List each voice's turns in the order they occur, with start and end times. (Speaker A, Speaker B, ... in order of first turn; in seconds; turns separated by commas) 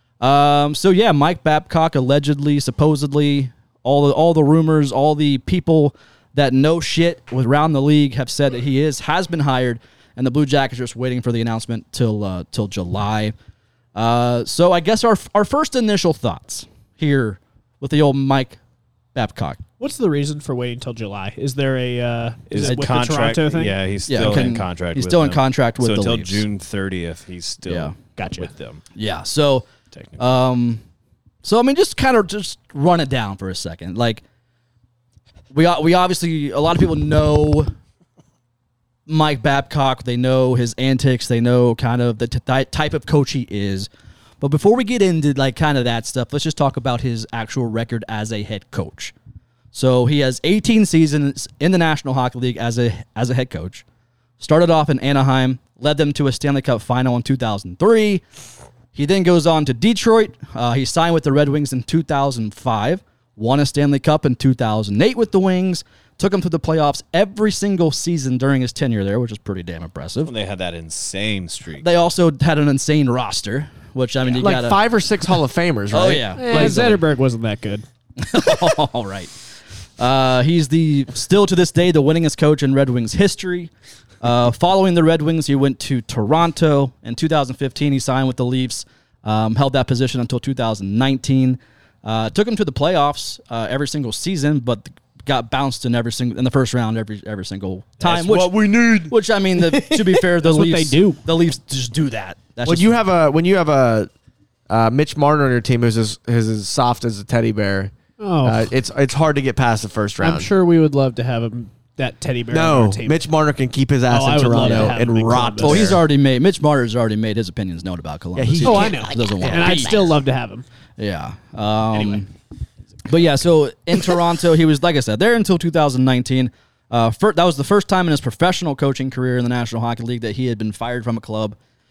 Speaker A: 0.2-13.3, Speaker A: 13.9-18.6, Speaker A: 19.1-19.6, Speaker B: 19.8-23.8, Speaker C: 22.5-28.8, Speaker A: 24.1-26.4, Speaker A: 27.7-27.9, Speaker B: 28.2-28.5, Speaker A: 28.9-29.7, Speaker A: 30.2-30.8, Speaker A: 31.4-34.2, Speaker A: 35.5-37.7, Speaker A: 39.1-43.9, Speaker A: 44.4-49.1, Speaker A: 49.7-53.8, Speaker A: 54.4-58.2, Speaker A: 58.9-70.3, Speaker C: 70.2-71.9, Speaker A: 71.8-74.8, Speaker D: 74.4-76.8, Speaker A: 75.9-77.0, Speaker B: 76.4-77.8, Speaker A: 78.2-79.3, Speaker A: 80.0-103.0, Speaker D: 98.3-99.0, Speaker B: 100.4-101.2, Speaker D: 102.7-104.1, Speaker D: 104.7-107.9, Speaker B: 108.2-108.7, Speaker D: 108.4-110.5, Speaker B: 110.2-113.2, Speaker D: 112.5-116.0, Speaker B: 114.1-116.0, Speaker A: 114.6-115.0, Speaker A: 115.6-120.1, Speaker D: 118.4-119.8, Speaker B: 118.6-120.7, Speaker A: 121.0-122.3, Speaker A: 123.0-131.6